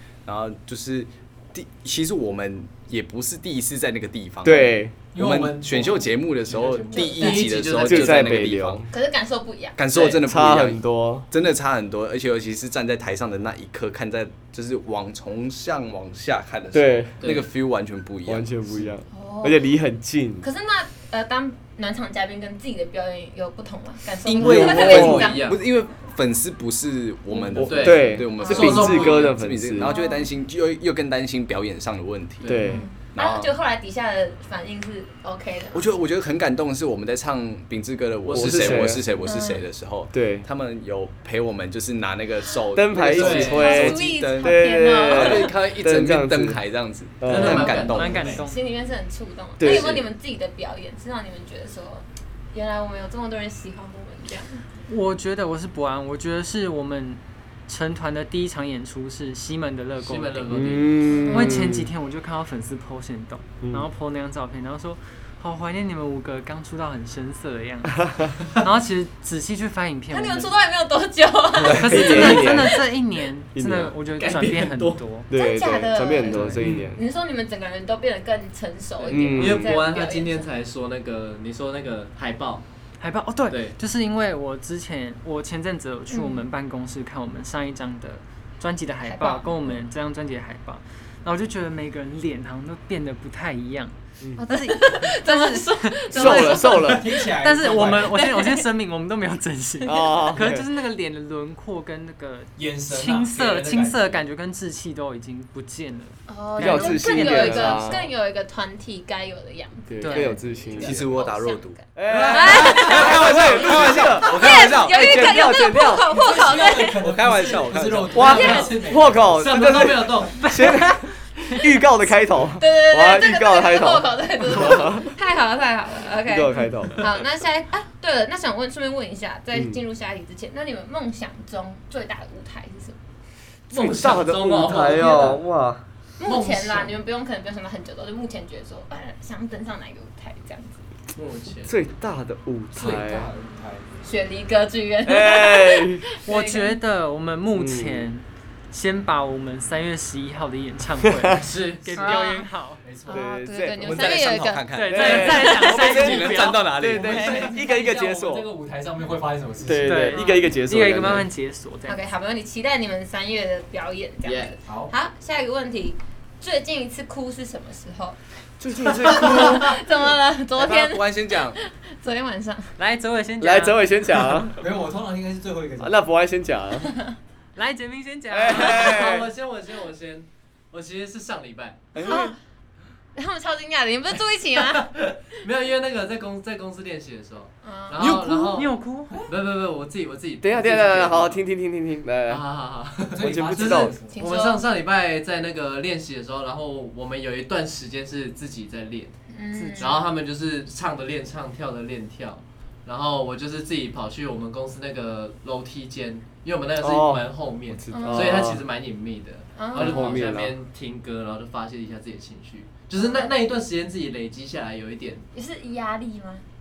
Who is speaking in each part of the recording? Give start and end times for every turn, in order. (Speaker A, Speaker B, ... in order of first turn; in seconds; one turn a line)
Speaker A: 0.3-8.9
Speaker B: 4.4-5.0
Speaker C: 5.1-7.4
Speaker D: 6.9-7.5
Speaker E: 7.2-8.5
Speaker B: 7.7-8.9
Speaker D: 8.9-9.8
Speaker A: 9.8-18.5
Speaker E: 9.9-10.2
Speaker B: 10.2-11.3
Speaker B: 16.7-17.3
Speaker E: 17.2-17.5
Speaker B: 18.3-20.5
Speaker D: 19.1-19.7
Speaker D: 20.4-25.5
Speaker A: 24.2-32.6
Speaker E: 24.4-25.6
Speaker B: 24.4-25.3
Speaker B: 27.5-29.9
Speaker E: 27.6-29.4
Speaker D: 28.4-29.0
Speaker D: 29.8-30.3
Speaker E: 32.4-32.7
Speaker B: 32.5-32.9
Speaker D: 32.6-35.9
Speaker A: 33.1-33.5
Speaker A: 35.7-48.4
Speaker B: 38.3-39.0
Speaker D: 39.2-39.6
Speaker B: 40.1-40.5
Speaker B: 42.7-46.6
Speaker E: 43.1-43.7
Speaker D: 43.4-45.6
Speaker B: 47.2-47.9
Speaker E: 47.3-48.4
Speaker F: 47.9-48.6
Speaker D: 48.4-54.6
Speaker B: 49.6-50.0
Speaker E: 49.6-50.0
Speaker F: 54.9-70.5
Speaker E: 60.0-61.2
Speaker B: 60.5-61.9
Speaker D: 61.2-61.6
Speaker B: 63.6-63.9
Speaker D: 70.1-72.5
Speaker B: 71.7-72.9
Speaker F: 71.8-75.3
Speaker B: 73.5-74.0
Speaker E: 74.2-75.0
Speaker B: 75.3-77.0
Speaker D: 75.3-80.5
Speaker F: 76.3-76.8
Speaker E: 79.0-82.7
Speaker B: 79.1-79.8
Speaker F: 83.0-108.0
Speaker E: 83.5-83.8
Speaker D: 86.1-86.5
Speaker D: 89.1-89.8
Speaker D: 94.4-96.9
Speaker B: 96.1-97.1
Speaker C: 96.8-98.1
Speaker D: 98.0-98.7
Speaker B: 99.8-100.7
Speaker C: 102.6-104.2
Speaker D: 106.3-117.2
Speaker B: 106.6-108.1
Speaker B: 109.9-111.1
Speaker F: 110.0-110.4
Speaker A: 110.7-115.3
Speaker B: 112.0-116.2
Speaker E: 112.1-112.6
Speaker C: 116.0-119.9
Speaker A: 117.0-118.2
Speaker B: 118.1-125.1
Speaker E: 118.2-120.4
Speaker D: 118.2-118.8
Speaker F: 120.4-121.0
Speaker D: 122.6-133.0
Speaker B: 126.3-127.1
Speaker B: 129.5-129.8
Speaker E: 133.7-135.4
Speaker B: 133.7-135.8
Speaker D: 136.2-140.8
Speaker E: 136.2-137.0
Speaker E: 141.2-141.8
Speaker B: 141.7-143.3
Speaker C: 142.7-143.9
Speaker D: 144.0-146.8
Speaker B: 145.1-146.1
Speaker F: 146.3-152.8
Speaker B: 147.6-148.1
Speaker B: 151.0-151.4
Speaker E: 151.4-152.2
Speaker D: 152.0-152.5
Speaker C: 152.8-153.4
Speaker B: 153.1-158.5
Speaker D: 153.1-155.9
Speaker A: 153.8-157.1
Speaker F: 154.7-156.8
Speaker C: 156.8-160.2
Speaker D: 157.1-157.3
Speaker B: 159.6-161.3
Speaker F: 159.8-162.0
Speaker D: 161.9-168.2
Speaker C: 164.6-164.9
Speaker B: 168.6-169.8
Speaker D: 169.0-172.7
Speaker A: 170.6-171.6
Speaker F: 172.8-173.9
Speaker B: 173.4-174.6
Speaker C: 174.5-176.0
Speaker B: 175.8-176.9
Speaker F: 177.6-179.2
Speaker B: 178.3-179.3
Speaker E: 178.5-181.9
Speaker B: 181.9-182.3
Speaker D: 182.0-182.4
Speaker D: 183.2-184.9
Speaker E: 185.0-191.4
Speaker D: 187.6-188.1
Speaker A: 188.0-188.4
Speaker F: 188.1-189.3
Speaker B: 190.4-192.4
Speaker E: 192.3-199.1
Speaker C: 193.1-194.3
Speaker B: 193.2-194.0
Speaker D: 194.1-194.6
Speaker D: 199.3-200.1
Speaker F: 199.5-200.0
Speaker E: 199.8-215.3
Speaker B: 206.8-208.6
Speaker D: 207.9-208.6
Speaker D: 209.6-210.3
Speaker B: 209.8-210.5
Speaker D: 213.0-213.3
Speaker D: 215.3-216.4